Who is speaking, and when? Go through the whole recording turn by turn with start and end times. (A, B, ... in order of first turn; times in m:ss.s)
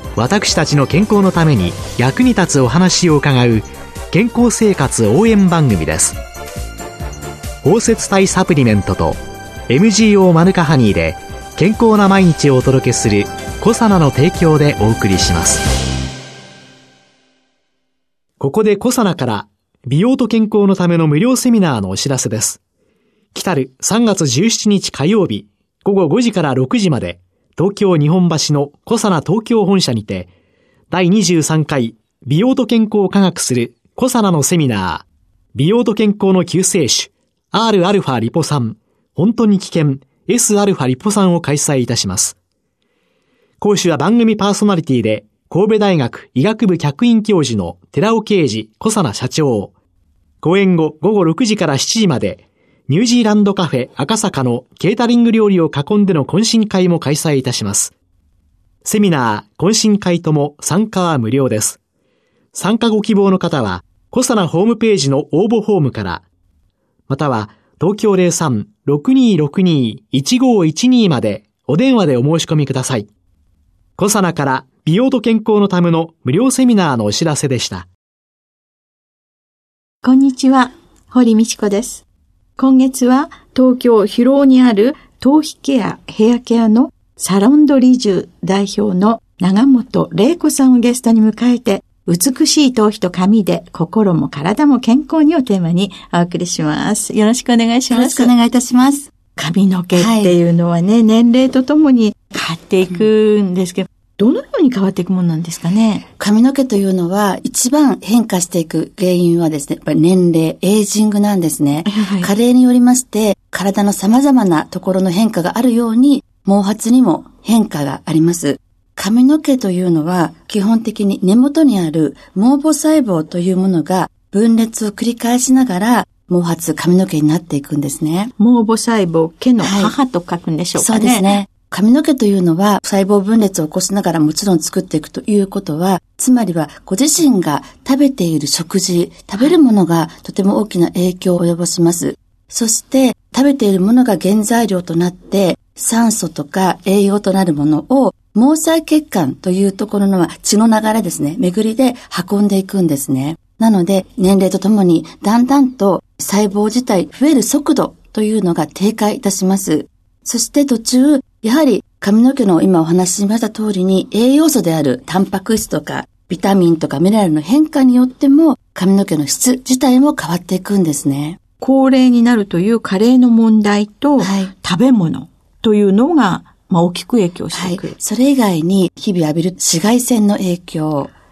0:00.2-0:06.2 A
0:07.6-0:15.6 A
0:18.4-0:22.6 A
0:23.3-0:30.3 A
0:30.9-0:42.4 A
0:43.6-0:49.7 A
0:50.4-0:57.9 A
0:58.8-1:01.8 A
1:02.5-1:06.2 A
1:07.1-1:13.1 A
1:14.0-1:17.9 A
1:20.0-1:22.0 B
1:22.6-1:38.4 B
1:37.9-1:39.1 C
1:39.4-1:46.1 B
1:39.9-1:40.4 C
1:46.2-2:08.3 C
1:51.8-1:52.3 B
2:08.4-2:11.4 B
2:09.6-2:10.0 C
2:10.8-2:51.4 C
2:51.6-2:58.0 B
2:54.2-2:54.5 C
2:57.5-3:01.1 C